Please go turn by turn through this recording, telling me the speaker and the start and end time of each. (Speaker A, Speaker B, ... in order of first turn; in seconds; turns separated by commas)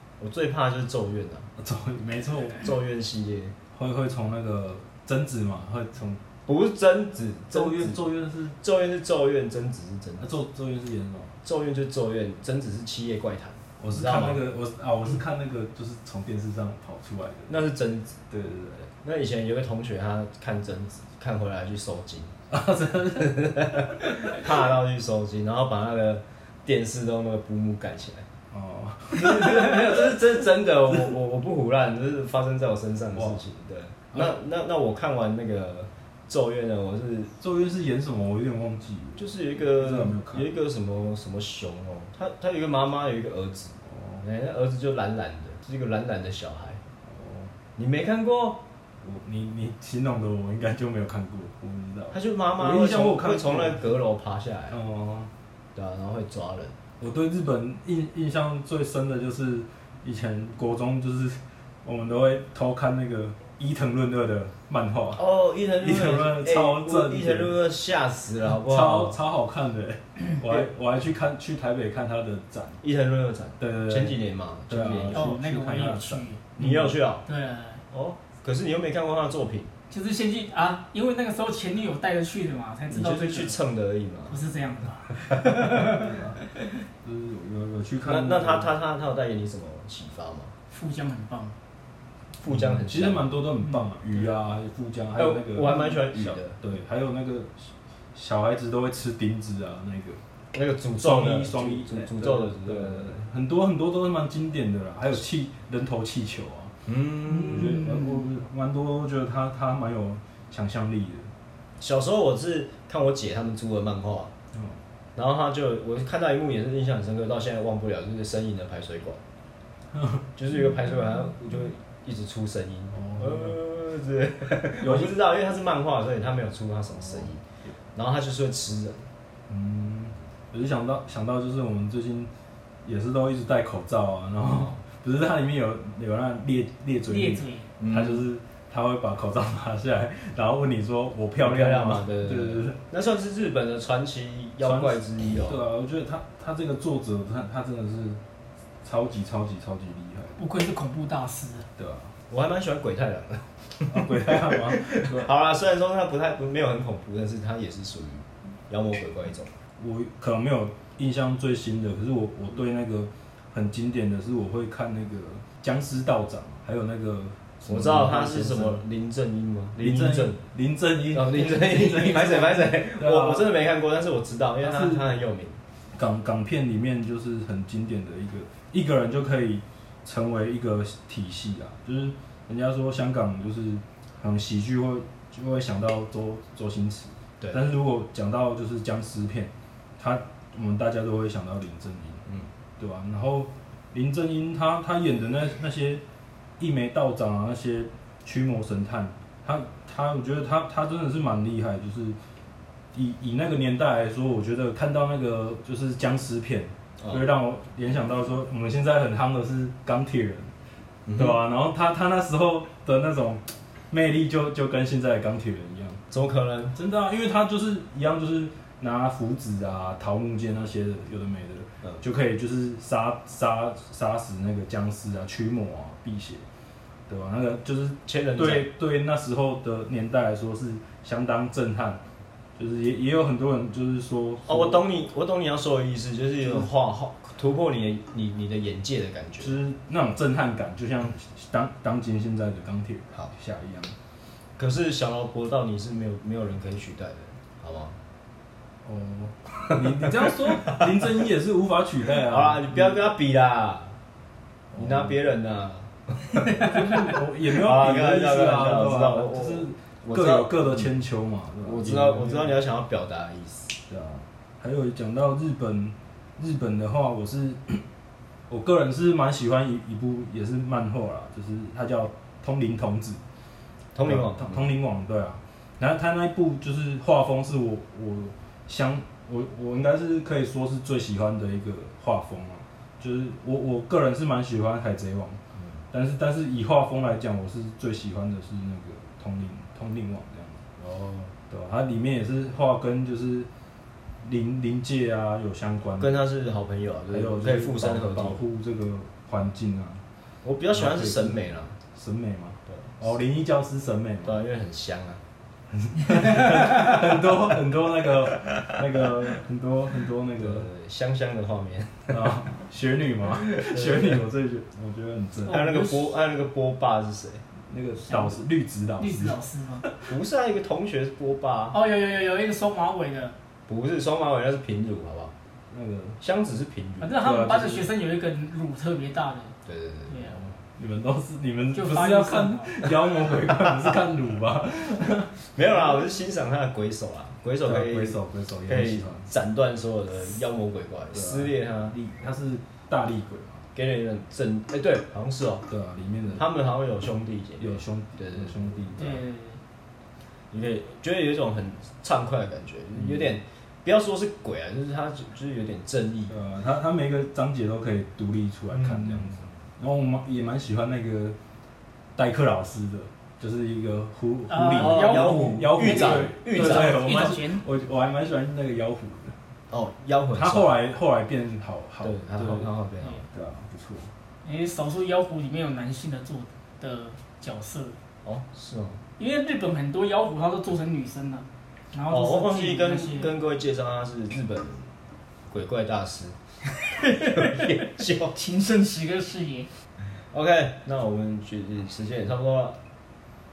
Speaker A: 0.2-1.5, Speaker B: 1.6-2.7, Speaker A: 2.6-3.6, Speaker B: 3.7-6.2, Speaker A: 6.5-8.1, Speaker B: 7.5-8.6, Speaker A: 8.6-10.4, Speaker B: 10.2-11.4, Speaker A: 11.4-14.4, Speaker B: 13.8-17.6, Speaker A: 17.5-18.2, Speaker B: 18.3-18.9, Speaker A: 18.9-22.3, Speaker B: 22.5-24.3, Speaker A: 23.1-28.3, Speaker B: 28.5-30.2, Speaker A: 29.1-37.3, Speaker B: 30.9-31.1, Speaker B: 33.1-33.4, Speaker B: 37.4-40.5, Speaker A: 39.2-46.8, Speaker B: 43.8-44.2, Speaker B: 47.0-47.5, Speaker A: 47.8-48.6, Speaker B: 49.0-53.9, Speaker A: 52.1-54.8, Speaker B: 54.7-55.3, Speaker A: 55.8-56.8, Speaker B: 57.0-65.2, Speaker A: 65.2-69.2, Speaker B: 65.8-67.5, Speaker B: 68.5-72.8, Speaker A: 72.8-75.4, Speaker B: 73.6-74.2, Speaker B: 74.7-77.0, Speaker C: 75.1-76.4, Speaker A: 76.5-77.2, Speaker C: 77.2-77.8, Speaker A: 77.9-79.7, Speaker C: 79.9-83.6, Speaker A: 82.9-84.5, Speaker C: 84.3-86.5, Speaker A: 85.2-85.6, Speaker B: 85.7-86.4, Speaker B: 87.0-88.7, Speaker A: 88.0-90.5, Speaker C: 90.7-91.6, Speaker A: 92.4-93.4, Speaker B: 92.5-100.2, Speaker A: 95.2-96.6, Speaker A: 100.5-103.3, Speaker B: 101.0-106.8, Speaker A: 106.9-107.9, Speaker B: 107.3-111.3, Speaker C: 107.5-108.3, Speaker A: 111.8-114.3, Speaker B: 114.5-114.8, Speaker A: 115.2-119.2, Speaker B: 119.9-120.3, Speaker A: 120.4-127.4, Speaker B: 122.9-123.6, Speaker B: 124.8-125.2, Speaker B: 126.9-127.7, Speaker A: 128.0-129.1, Speaker B: 129.5-132.3, Speaker B: 132.8-142.8, Speaker A: 134.4-134.8, Speaker C: 137.1-137.7, Speaker A: 137.8-138.3, Speaker A: 141.4-145.6, Speaker B: 144.6-148.2, Speaker B: 148.8-150.4, Speaker C: 150.4-151.7, Speaker B: 151.8-152.2, Speaker A: 152.3-159.5, Speaker B: 153.9-155.3, Speaker B: 159.8-168.8, Speaker A: 167.7-170.4, Speaker B: 169.8-173.5, Speaker A: 171.1-175.6, Speaker B: 174.6-175.1, Speaker B: 176.0-192.2, Speaker B: 192.8-196.0, Speaker B: 196.6-202.2, Speaker B: 202.9-210.5, Speaker A: 211.1-211.4, Speaker B: 211.2-216.0, Speaker A: 216.1-216.8, Speaker B: 216.8-226.4, Speaker B: 227.1-232.0, Speaker A: 228.1-228.7, Speaker B: 232.6-234.9, Speaker A: 234.5-239.6, Speaker B: 236.4-236.7, Speaker B: 239.4-244.0, Speaker A: 244.6-248.0, Speaker B: 248.8-253.1, Speaker A: 249.7-250.9, Speaker A: 252.3-254.0, Speaker B: 254.7-255.2, Speaker A: 254.8-256.7, Speaker B: 256.5-262.6, Speaker A: 257.5-260.9, Speaker A: 261.6-263.8, Speaker B: 263.9-267.8, Speaker B: 268.5-273.2, Speaker A: 273.9-274.7, Speaker B: 274.1-285.4, Speaker A: 285.6-285.8, Speaker B: 285.9-290.6, Speaker A: 290.8-291.3, Speaker B: 291.5-293.5, Speaker B: 294.2-296.1, Speaker A: 296.0-298.4, Speaker B: 297.1-300.0, Speaker A: 300.4-301.8, Speaker B: 300.8-304.4, Speaker A: 302.7-303.0, Speaker A: 304.2-305.2, Speaker B: 305.7-310.7, Speaker A: 310.4-312.2, Speaker B: 312.1-315.6, Speaker A: 313.4-314.2, Speaker C: 315.5-316.1, Speaker A: 315.5-317.4, Speaker B: 317.7-320.0, Speaker C: 318.1-318.4, Speaker C: 319.0-319.9, Speaker A: 320.1-321.8, Speaker C: 321.7-323.4, Speaker A: 323.7-325.3, Speaker B: 325.7-326.2, Speaker A: 326.2-327.2, Speaker C: 327.0-329.5, Speaker B: 327.2-327.9, Speaker A: 329.6-330.5, Speaker C: 330.1-330.4, Speaker B: 330.6-335.4, Speaker C: 331.7-332.7, Speaker A: 332.8-334.0, Speaker A: 335.5-341.9, Speaker B: 337.6-339.3, Speaker B: 341.1-343.6, Speaker A: 343.8-345.7, Speaker B: 345.7-346.5, Speaker A: 346.4-349.2, Speaker B: 347.6-349.2, Speaker C: 349.0-349.6, Speaker A: 350.5-356.4, Speaker B: 353.0-353.3, Speaker B: 356.3-361.4, Speaker A: 358.7-359.5, Speaker B: 362.2-369.4, Speaker C: 364.5-367.6, Speaker A: 364.7-367.1, Speaker A: 369.7-370.7, Speaker B: 370.3-372.7, Speaker A: 372.0-373.2, Speaker B: 373.3-374.1, Speaker C: 374.4-378.0, Speaker A: 378.2-379.0, Speaker C: 379.2-383.3, Speaker A: 382.1-384.9, Speaker A: 385.5-386.4, Speaker C: 387.0-389.7, Speaker A: 387.0-388.4, Speaker A: 390.3-392.8